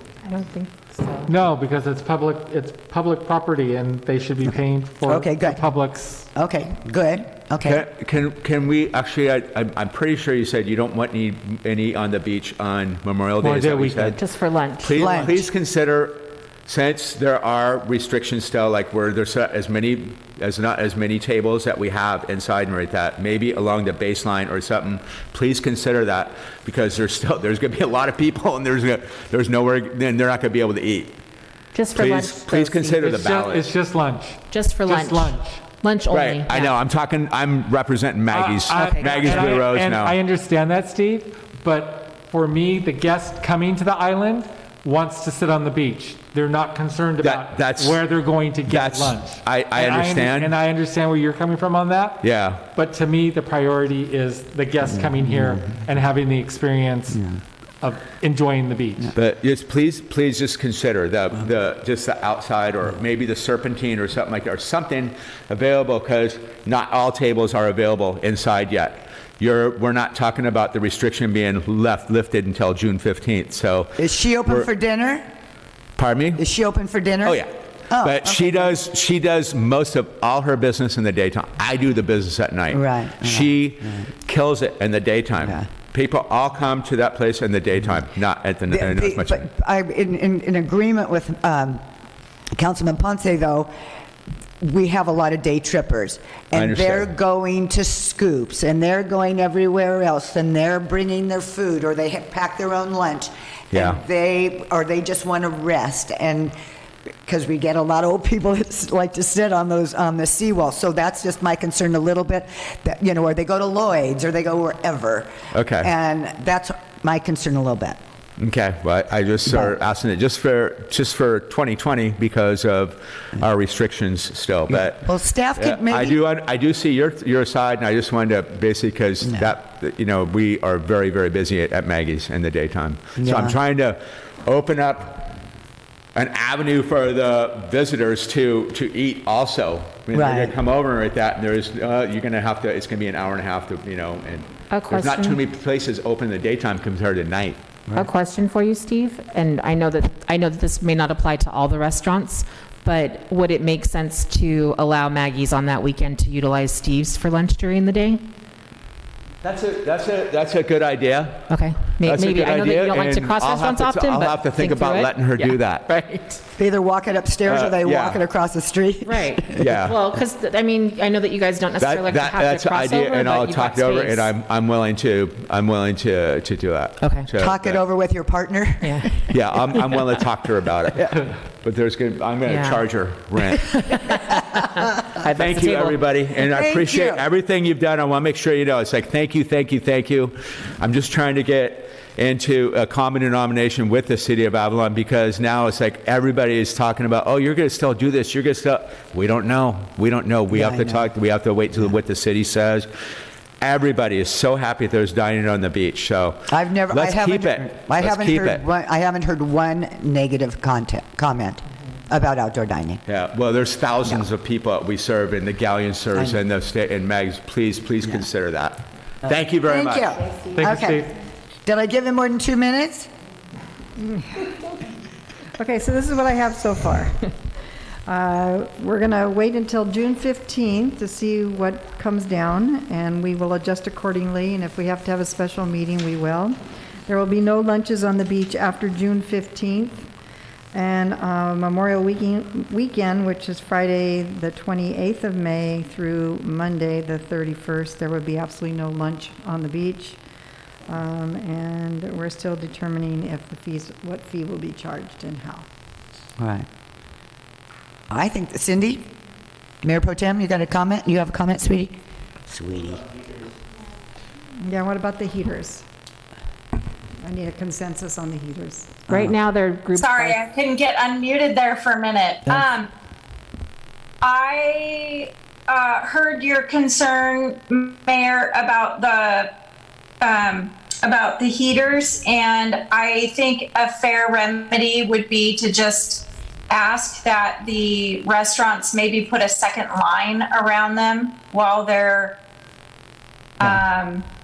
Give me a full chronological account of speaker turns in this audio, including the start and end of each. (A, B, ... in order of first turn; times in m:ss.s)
0:00.2-0:01.3 A
0:01.2-0:06.3 B
0:05.0-0:05.7 C
0:06.3-0:07.8 C
0:07.6-0:14.2 D
0:13.4-0:14.2 B
0:14.2-0:15.2 A
0:14.8-0:31.2 D
0:15.0-0:15.4 C
0:31.7-0:33.2 A
0:31.9-0:33.7 D
0:33.1-0:35.6 B
0:34.5-0:36.7 A
0:36.1-0:40.2 D
0:38.3-0:57.3 B
0:38.9-0:39.2 A
0:47.2-0:48.0 D
0:48.6-0:50.6 D
0:52.2-0:52.7 D
0:55.1-0:55.6 C
0:57.8-0:59.1 B
0:59.2-1:14.7 D
1:14.0-1:15.2 C
1:16.0-1:16.4 D
1:16.4-1:18.8 C
1:17.2-1:29.5 D
1:22.7-1:24.0 C
1:25.4-1:25.7 C
1:28.7-1:31.8 C
1:32.6-1:33.7 C
1:34.6-1:46.6 C
1:36.5-1:37.1 D
1:43.7-1:44.0 D
1:47.2-1:58.0 C
1:55.5-1:55.9 D
1:58.4-2:15.3 D
1:59.4-1:59.7 C
2:04.7-2:06.2 C
2:09.2-2:09.5 C
2:13.2-2:13.6 C
2:16.1-2:27.6 D
2:20.1-2:20.5 C
2:24.7-2:25.4 A
2:27.9-2:38.2 A
2:39.4-2:41.4 D
2:41.5-2:46.4 A
2:42.0-2:45.9 D
2:46.6-2:49.7 C
2:47.4-2:48.2 D
2:49.0-2:54.3 A
2:49.6-2:50.0 D
2:51.8-2:57.8 D
2:57.0-2:57.3 A
2:57.4-2:59.4 C
2:58.8-2:59.1 A
2:59.3-3:03.7 D
3:02.4-3:02.9 A
3:03.9-3:06.0 A
3:05.4-3:22.9 D
3:06.5-3:07.2 C
3:20.5-3:21.1 C
3:23.6-3:28.6 D
3:26.5-3:33.0 C
3:33.1-3:40.4 D
3:36.1-3:36.4 C
3:39.2-3:41.1 C
3:40.4-3:41.1 B
3:41.7-3:43.1 C
3:44.0-3:44.6 E
3:45.6-3:47.2 E
3:48.1-3:56.6 E
3:57.1-4:00.1 E
4:00.7-4:10.2 E
4:10.9-4:15.6 E
4:16.4-4:16.6 C
4:18.1-4:19.1 C
4:19.8-4:21.9 C
4:22.5-4:23.0 C
4:24.6-4:25.8 E
4:27.2-4:29.0 E
4:29.1-4:29.3 C
4:29.1-4:30.4 A
4:29.9-4:32.9 F
4:34.2-4:39.5 F
4:40.2-4:52.4 F
4:53.6-4:54.2 F